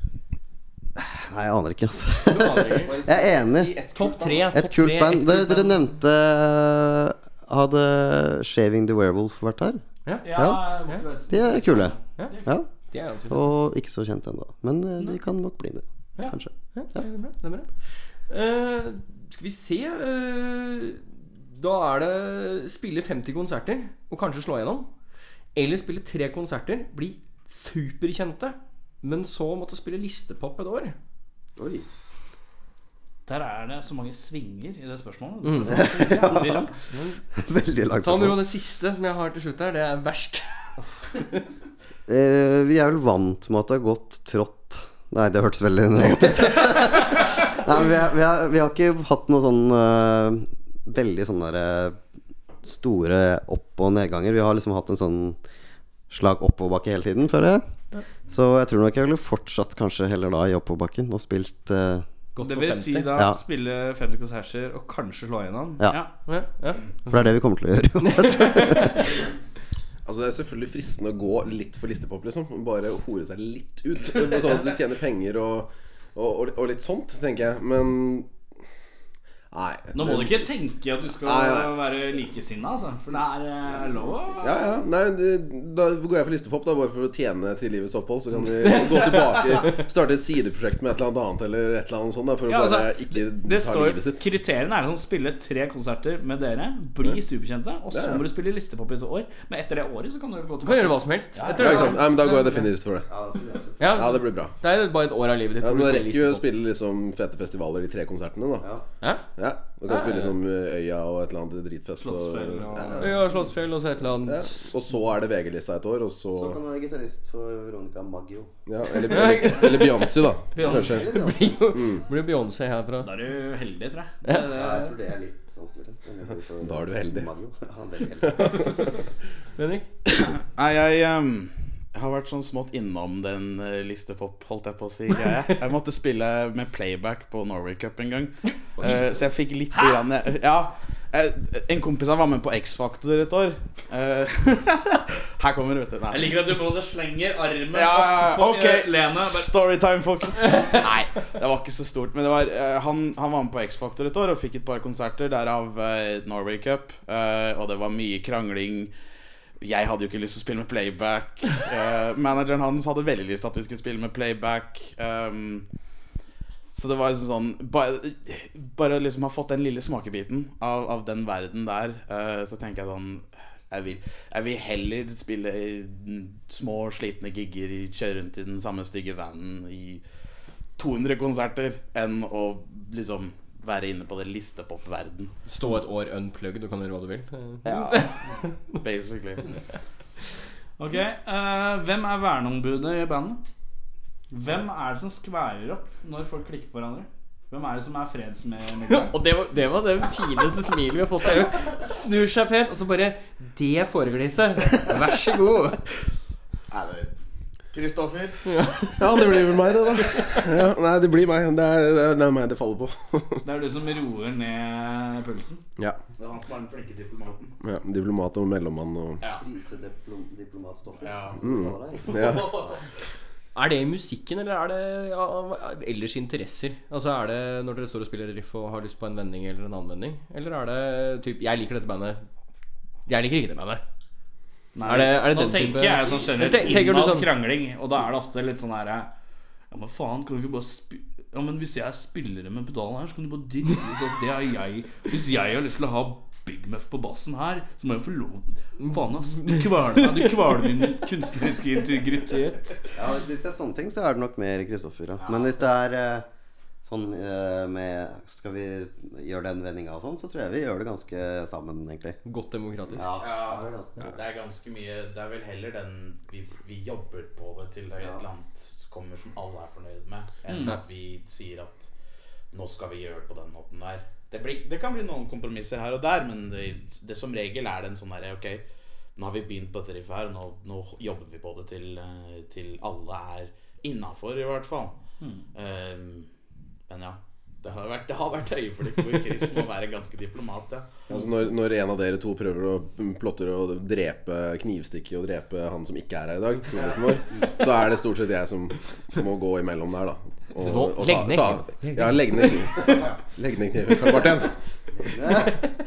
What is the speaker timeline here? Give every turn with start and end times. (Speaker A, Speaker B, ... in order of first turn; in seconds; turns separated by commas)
Speaker A: 1.0-3.9, Speaker B: 2.2-3.0, Speaker C: 2.9-4.5, Speaker B: 3.8-5.9, Speaker A: 4.5-9.8, Speaker B: 10.1-11.0, Speaker D: 10.2-12.5, Speaker A: 10.3-10.7, Speaker A: 11.3-12.7, Speaker B: 12.2-13.5, Speaker A: 13.3-17.0, Speaker B: 16.2-17.7, Speaker B: 18.3-24.9, Speaker B: 25.5-30.9, Speaker A: 31.6-31.8, Speaker D: 33.2-36.9, Speaker B: 35.4-36.0, Speaker A: 35.7-36.7, Speaker B: 36.9-37.2, Speaker A: 37.4-38.4, Speaker B: 38.0-40.5, Speaker A: 42.1-52.0, Speaker A: 52.6-55.4, Speaker A: 56.1-57.6, Speaker A: 58.3-62.0, Speaker B: 62.3-63.2, Speaker D: 62.4-66.1, Speaker B: 66.3-67.3, Speaker A: 67.1-69.1, Speaker B: 68.0-69.1, Speaker C: 70.0-78.3, Speaker C: 79.5-80.5, Speaker D: 79.9-84.5, Speaker C: 81.2-81.7, Speaker C: 84.4-94.2, Speaker B: 88.6-89.7, Speaker D: 92.5-102.0, Speaker C: 97.9-98.2, Speaker B: 100.6-102.6, Speaker C: 101.5-103.1, Speaker A: 103.1-104.0, Speaker B: 103.8-106.5, Speaker C: 103.9-104.5, Speaker C: 105.6-108.7, Speaker A: 108.6-108.8, Speaker C: 109.4-113.2, Speaker B: 109.9-110.2, Speaker D: 112.0-113.2, Speaker B: 113.0-114.5, Speaker C: 114.2-116.6, Speaker A: 116.3-118.5, Speaker C: 118.7-121.2, Speaker B: 119.0-123.1, Speaker A: 120.7-121.6, Speaker C: 121.7-122.0, Speaker D: 123.0-124.9, Speaker A: 124.4-128.7, Speaker C: 126.6-127.3, Speaker C: 128.2-128.9, Speaker B: 129.6-129.9, Speaker E: 130.2-146.4, Speaker D: 139.7-140.0, Speaker D: 146.1-149.5, Speaker E: 147.7-158.9, Speaker E: 159.6-165.7, Speaker E: 166.7-180.0, Speaker E: 180.8-185.3, Speaker B: 185.5-188.1, Speaker E: 187.6-188.2, Speaker E: 188.7-189.4, Speaker D: 190.8-193.4, Speaker D: 194.3-199.2, Speaker B: 198.9-205.8, Speaker E: 206.7-207.1, Speaker E: 207.7-208.4, Speaker B: 208.4-209.2, Speaker C: 208.9-213.4, Speaker D: 213.4-215.6, Speaker E: 216.2-217.5, Speaker C: 217.6-219.2, Speaker A: 219.3-222.7, Speaker E: 221.0-221.4, Speaker C: 221.4-222.5, Speaker E: 222.2-222.8, Speaker B: 223.5-232.2, Speaker B: 233.1-233.8, Speaker D: 234.7-239.1, Speaker B: 234.8-237.3, Speaker D: 239.7-252.8, Speaker A: 252.9-256.2, Speaker E: 255.2-255.7, Speaker A: 256.8-262.2, Speaker B: 262.2-263.1, Speaker A: 262.9-264.2, Speaker E: 263.2-271.9, Speaker D: 270.5-270.7, Speaker E: 272.5-278.6, Speaker E: 279.1-284.9, Speaker E: 285.5-286.3, Speaker E: 286.9-290.9, Speaker C: 291.1-304.6, Speaker B: 300.6-302.7, Speaker A: 305.0-305.6, Speaker B: 305.3-305.7